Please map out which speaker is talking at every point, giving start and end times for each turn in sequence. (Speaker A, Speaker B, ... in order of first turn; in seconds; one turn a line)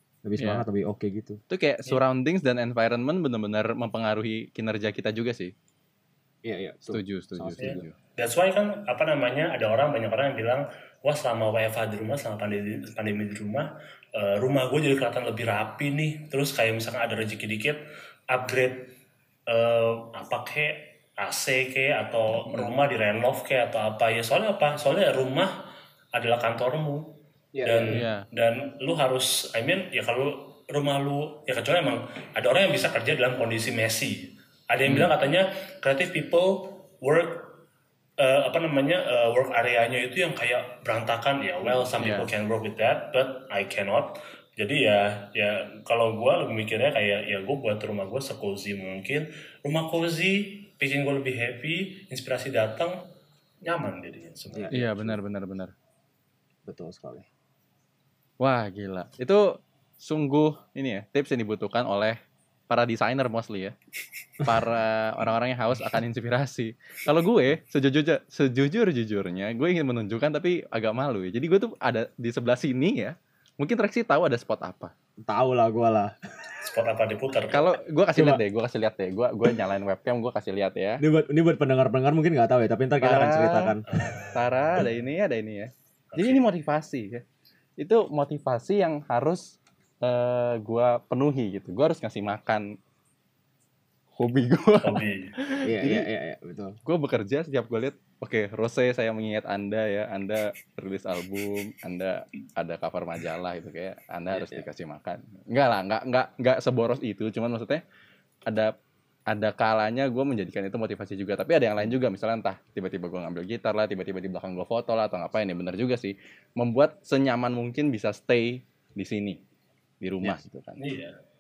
Speaker A: 0.2-1.4
Speaker B: 0.4-0.7
Speaker B: 1.5-5.5
Speaker A: 6.4-7.8
Speaker B: 6.9-8.0
Speaker C: 7.6-17.8
Speaker C: 18.3-18.9
Speaker C: 19.5-25.5
Speaker C: 26.1-27.1
Speaker A: 27.5-28.1
Speaker C: 27.6-37.6
Speaker B: 27.9-28.3
Speaker B: 34.9-35.1
Speaker C: 38.2-53.0
Speaker B: 42.0-42.3
Speaker C: 53.6-54.8
Speaker A: 54.5-55.2
Speaker B: 54.7-55.7
Speaker A: 56.6-57.3
Speaker B: 58.4-62.2
Speaker B: 62.7-63.8
Speaker B: 64.4-74.9
Speaker A: 75.3-76.5
Speaker C: 76.6-77.8
Speaker B: 77.5-81.0
Speaker A: 78.2-78.4
Speaker A: 81.0-83.9
Speaker B: 83.0-83.7
Speaker C: 83.9-84.8
Speaker B: 84.3-87.2
Speaker C: 86.1-86.5
Speaker B: 87.8-92.8
Speaker B: 94.2-96.1
Speaker C: 94.8-95.3
Speaker A: 95.6-96.8
Speaker B: 96.9-107.8
Speaker A: 104.3-104.6
Speaker B: 108.5-108.7
Speaker B: 109.3-119.4
Speaker B: 120.0-120.8
Speaker C: 120.8-121.2